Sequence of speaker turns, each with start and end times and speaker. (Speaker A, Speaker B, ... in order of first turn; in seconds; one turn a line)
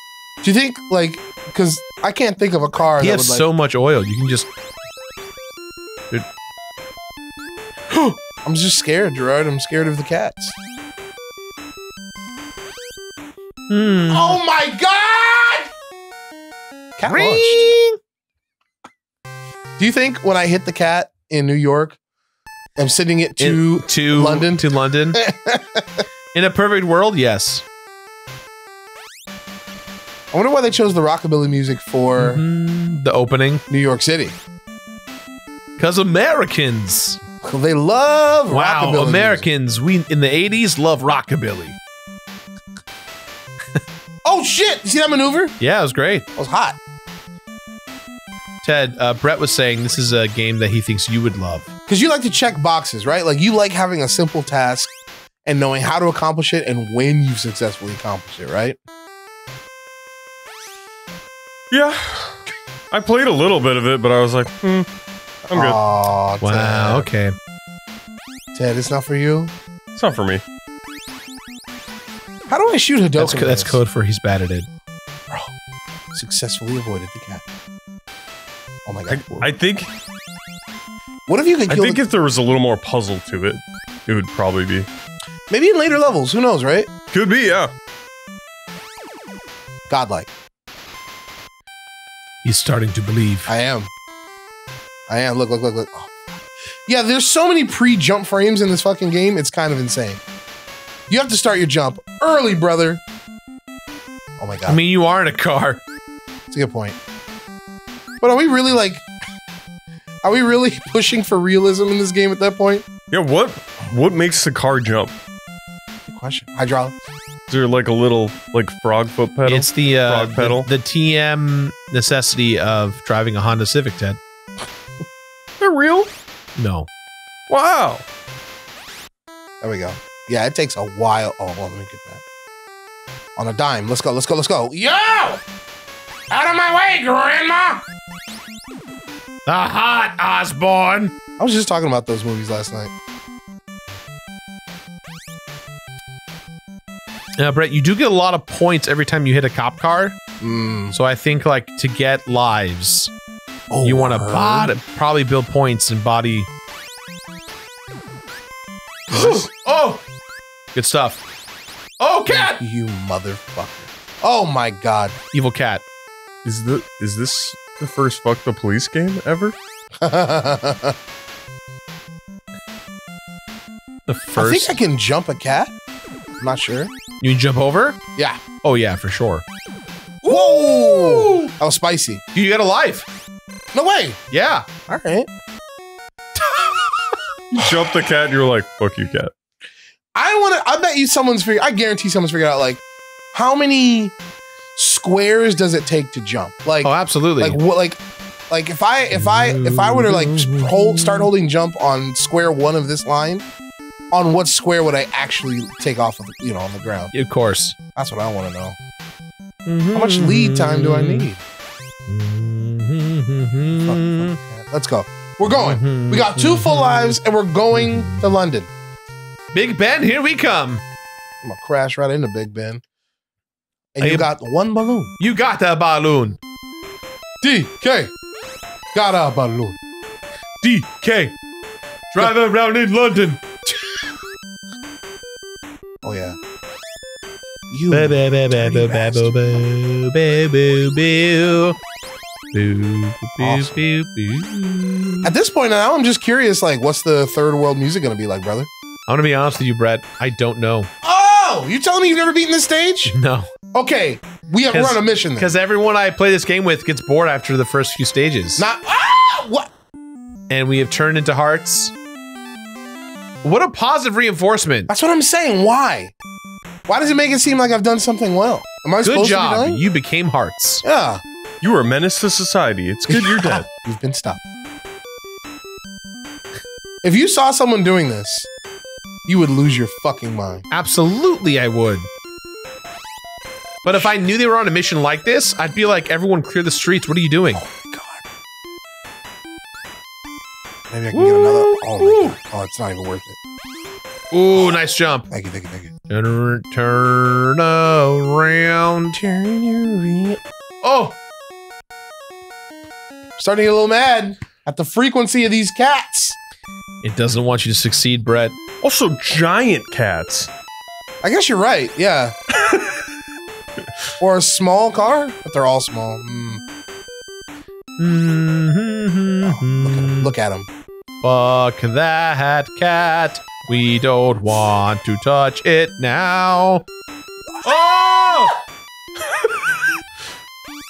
Speaker A: 0.4-3.5
Speaker B: 3.0-4.5
Speaker A: 7.9-10.6
Speaker B: 13.7-14.4
Speaker A: 14.1-15.7
Speaker A: 17.0-17.7
Speaker B: 17.1-18.0
Speaker A: 19.8-22.0
Speaker A: 22.8-26.0
Speaker B: 23.4-25.2
Speaker B: 26.3-27.6
Speaker A: 30.3-32.4
Speaker B: 32.2-33.6
Speaker A: 33.7-34.4
Speaker B: 35.8-37.2
Speaker A: 37.4-39.5
Speaker B: 38.5-41.8
Speaker A: 44.2-45.5
Speaker B: 45.6-46.2
Speaker A: 46.4-46.8
Speaker B: 48.6-51.7
Speaker A: 51.9-54.9
Speaker A: 55.4-58.8
Speaker C: 61.7-64.9
Speaker A: 65.5-67.1
Speaker C: 65.5-65.8
Speaker B: 66.4-67.3
Speaker A: 68.5-69.5
Speaker C: 69.9-70.4
Speaker A: 72.5-73.8
Speaker B: 73.2-74.7
Speaker A: 75.3-75.5
Speaker A: 76.1-77.4
Speaker A: 78.8-79.2
Speaker C: 79.1-79.9
Speaker A: 81.3-82.0
Speaker C: 81.7-84.9
Speaker A: 85.5-86.9
Speaker C: 87.1-87.7
Speaker A: 89.9-90.3
Speaker B: 92.4-93.5
Speaker A: 93.5-93.9
Speaker A: 95.1-100.2
Speaker A: 101.1-103.0
Speaker A: 104.4-104.8
Speaker B: 104.7-105.8
Speaker A: 106.5-107.0
Speaker A: 108.2-109.0
Speaker A: 110.2-112.9
Speaker C: 113.1-115.2
Speaker A: 116.1-117.0
Speaker C: 117.5-120.7
Speaker B: 119.5-124.2
Speaker C: 125.6-126.1
Speaker B: 126.5-126.9
Speaker C: 127.5-128.0
Speaker A: 129.6-132.2
Speaker A: 133.3-135.4
Speaker A: 136.3-137.8
Speaker B: 139.5-141.1
Speaker A: 141.4-142.9
Speaker B: 147.4-150.2
Speaker A: 150.4-150.9
Speaker B: 150.9-153.1
Speaker A: 153.7-154.7
Speaker B: 153.8-156.5
Speaker A: 159.1-159.5
Speaker B: 159.1-160.0
Speaker B: 160.7-161.2
Speaker B: 162.0-162.6
Speaker A: 162.3-165.2
Speaker B: 165.3-165.8
Speaker C: 166.4-169.6
Speaker A: 170.0-170.9
Speaker B: 174.1-174.8
Speaker A: 174.3-175.7
Speaker A: 176.4-176.9
Speaker B: 177.2-178.0
Speaker A: 178.2-178.4
Speaker B: 178.6-179.4
Speaker A: 180.2-182.2
Speaker B: 180.2-181.5
Speaker B: 182.3-183.1
Speaker A: 183.7-184.2
Speaker B: 184.3-184.7
Speaker A: 184.9-185.3
Speaker C: 187.5-189.3
Speaker A: 190.1-192.8
Speaker A: 193.3-194.1
Speaker A: 194.8-203.4
Speaker B: 196.8-197.6
Speaker B: 199.1-201.3
Speaker A: 204.1-207.1
Speaker B: 207.1-207.8
Speaker A: 207.9-208.8
Speaker B: 209.7-211.3
Speaker A: 209.9-211.4
Speaker B: 212.1-214.4
Speaker A: 213.8-218.7
Speaker B: 215.5-217.2
Speaker B: 217.7-218.3
Speaker B: 219.5-220.8
Speaker A: 221.4-222.8
Speaker A: 223.9-225.1
Speaker B: 224.0-224.3
Speaker B: 225.2-226.4
Speaker A: 227.4-228.1
Speaker A: 228.9-229.8
Speaker B: 230.6-231.3
Speaker B: 232.1-233.4
Speaker A: 236.0-236.4
Speaker A: 237.7-239.3
Speaker B: 237.9-241.8
Speaker B: 242.5-245.3
Speaker A: 243.4-243.8
Speaker A: 245.2-248.7
Speaker B: 249.1-250.9
Speaker A: 251.0-253.1
Speaker B: 253.1-253.5
Speaker A: 253.7-255.6
Speaker B: 254.7-258.6
Speaker A: 258.6-259.7
Speaker B: 260.5-261.9
Speaker B: 263.4-264.9
Speaker A: 264.9-266.1
Speaker A: 266.9-269.8
Speaker B: 269.0-270.8
Speaker A: 270.8-271.2
Speaker C: 271.6-273.6
Speaker A: 273.1-274.4
Speaker A: 277.0-278.5
Speaker A: 279.3-280.6
Speaker B: 280.7-282.1
Speaker B: 283.8-287.6
Speaker A: 287.5-288.2
Speaker A: 290.9-293.4
Speaker B: 291.1-292.4
Speaker B: 294.3-295.3
Speaker A: 295.3-295.9
Speaker B: 296.1-299.2
Speaker A: 299.1-300.4
Speaker B: 300.8-301.2
Speaker A: 303.4-306.4
Speaker B: 307.0-308.5
Speaker C: 308.8-310.5
Speaker A: 311.2-312.3
Speaker A: 314.2-316.6
Speaker B: 318.0-320.3
Speaker A: 319.4-320.7
Speaker B: 321.2-326.8
Speaker B: 327.6-328.6